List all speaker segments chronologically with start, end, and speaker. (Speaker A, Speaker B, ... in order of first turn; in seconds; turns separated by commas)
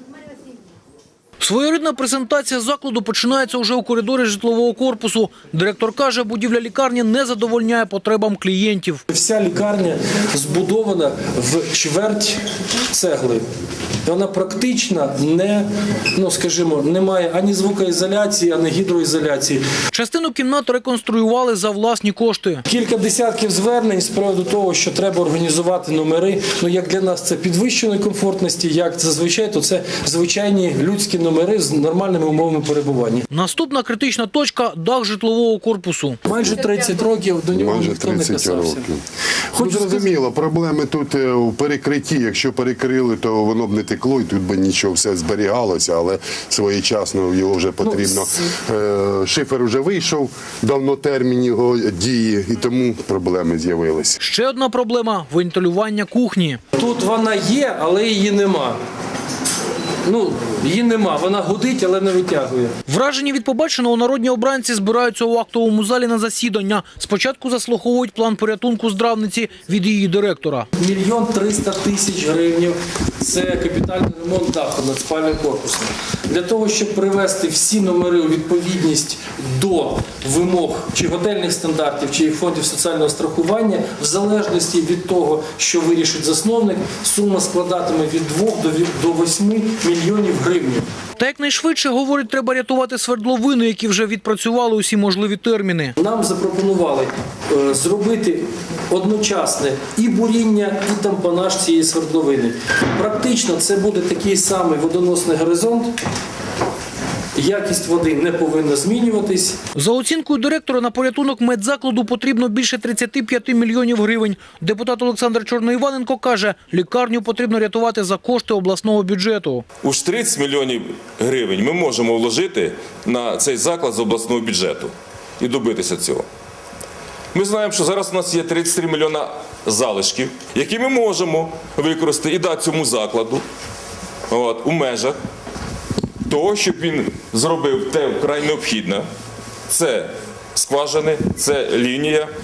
Speaker A: 1.4-9.0, Speaker B: 9.1-13.4, Speaker B: 14.0-19.6, Speaker A: 19.9-22.6, Speaker B: 22.6-33.2, Speaker A: 33.3-36.2, Speaker B: 36.2-38.9, Speaker C: 37.5-39.0, Speaker B: 39.5-40.1, Speaker C: 39.6-54.2, Speaker B: 47.8-48.2, Speaker A: 54.2-56.6, Speaker B: 56.8-58.8, Speaker B: 60.0-62.7, Speaker A: 62.9-70.7, Speaker B: 70.8-90.8, Speaker A: 91.2-96.0, Speaker B: 96.0-105.9, Speaker B: 107.3-109.6, Speaker A: 109.7-119.6, Speaker D: 119.8-126.2, Speaker D: 127.3-133.4, Speaker D: 134.3-135.2, Speaker D: 136.3-139.0, Speaker D: 139.7-142.3